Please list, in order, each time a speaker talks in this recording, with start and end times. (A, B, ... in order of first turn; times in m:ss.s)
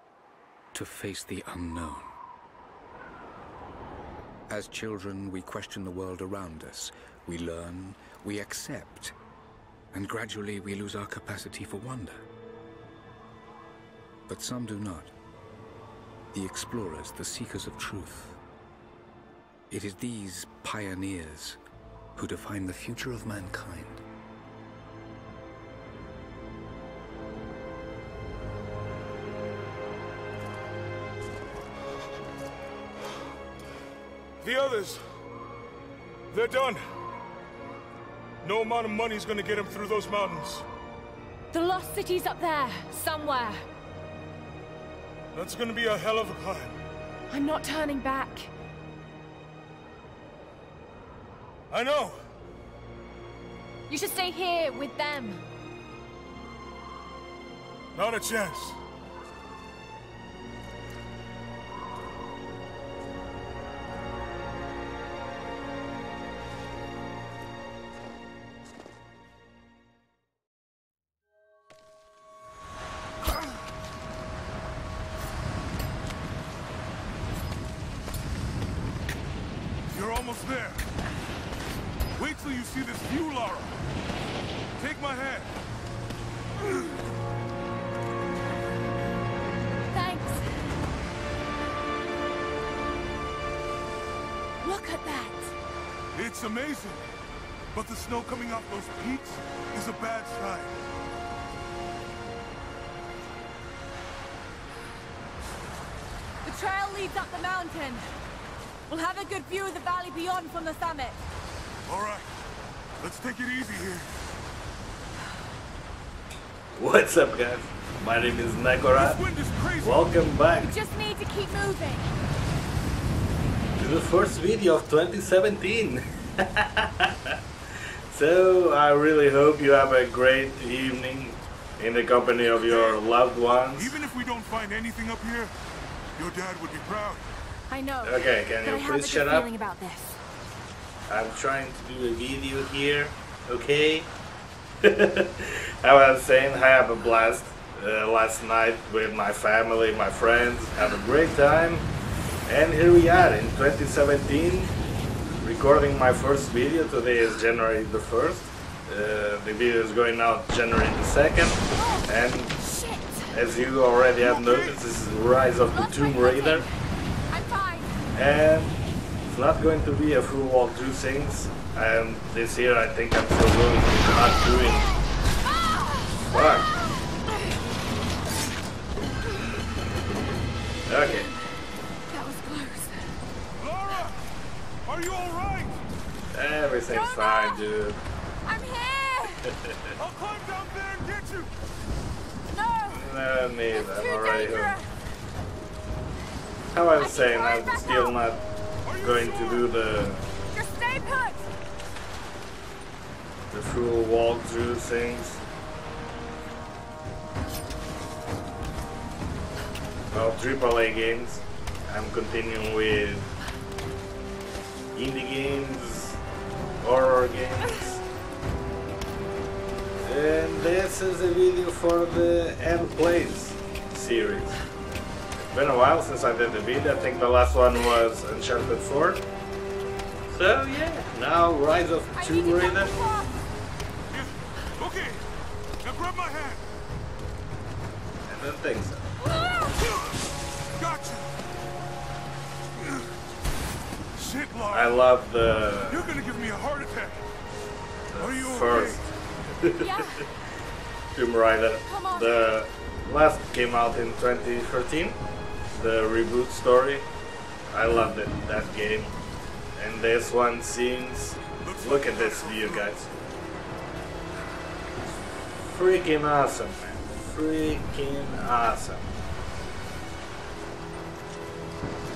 0:00.7-0:02.2 A
0:04.5-0:09.2 A
0:09.9-0:12.2 A
0:14.3-0:15.1 A
0:16.3-0:18.4 A
0:19.7-0:21.6 A
0:22.2-0:24.0 A
0:34.4-0:35.0 B
0:36.3-0:36.8 B
0:38.4-0:40.7 B
0:41.5-0:43.7 C
0:45.3-0:46.8 B
0:47.3-0:48.5 C
0:51.7-0:52.2 B
0:53.9-0:55.4 C
0:57.9-0:58.8 B
1:19.9-1:20.9 B
1:22.1-1:23.8 B
1:24.8-1:25.6 B
1:26.6-1:27.0 B
1:29.9-1:30.7 C
1:34.6-1:35.6 C
1:36.1-1:37.0 B
1:37.7-1:40.8 B
1:46.4-1:48.1 C
1:48.9-1:51.2 C
1:51.9-1:52.3 B
1:53.0-1:54.1 B
1:56.8-1:59.2 D
1:58.9-2:00.0 B
1:59.8-2:00.7 D
2:00.6-2:02.1 C
2:03.8-2:07.4 D
2:08.1-2:14.0 D
2:12.6-2:12.9 B
2:13.8-2:15.6 B
2:16.2-2:17.3 B
2:17.7-2:20.2 C
2:18.0-2:19.5 D
2:21.1-2:24.1 D
2:24.8-2:31.9 D
2:32.5-2:34.7 D
2:35.4-2:42.6 D
2:41.7-2:44.8 C
2:43.3-2:46.6 D
2:45.7-2:46.7 C
2:47.3-2:48.0 C
2:48.1-2:54.9 D
2:55.4-2:57.5 C
2:56.2-2:56.7 D
3:00.9-3:01.3 D
3:02.1-3:03.2 C
3:03.6-3:04.3 B
3:04.8-3:05.8 B
3:06.3-3:08.0 D
3:06.9-3:07.7 C
3:08.5-3:09.5 C
3:09.5-3:10.0 D
3:10.0-3:11.5 B
3:12.5-3:13.1 C
3:12.9-3:14.8 D
3:13.7-3:14.9 C
3:16.7-3:18.4 D
3:17.0-3:18.2 C
3:18.8-3:19.7 B
3:19.0-3:20.2 D
3:20.5-3:21.5 C
3:23.5-3:25.4 D
3:30.1-3:33.3 D
3:34.9-3:36.2 D
3:36.8-3:38.0 D
3:40.0-3:44.6 D
3:45.4-3:49.2 D
3:50.3-3:52.9 D
3:52.2-3:53.4 C
3:54.1-3:55.2 B
3:55.8-3:56.7 B
3:58.3-3:59.1 D
3:59.2-3:59.8 C
3:59.8-4:01.4 B
4:02.8-4:03.1 B
4:04.1-4:05.0 B
4:04.7-4:06.1 D
4:05.9-4:07.2 B
4:08.1-4:10.0 D
4:08.2-4:09.0 B
4:09.8-4:10.3 C
4:11.1-4:15.2 D
4:11.9-4:12.5 C
4:15.8-4:17.1 D
4:17.7-4:19.1 D
4:19.8-4:23.0 D
4:21.5-4:23.1 B
4:25.6-4:29.1 D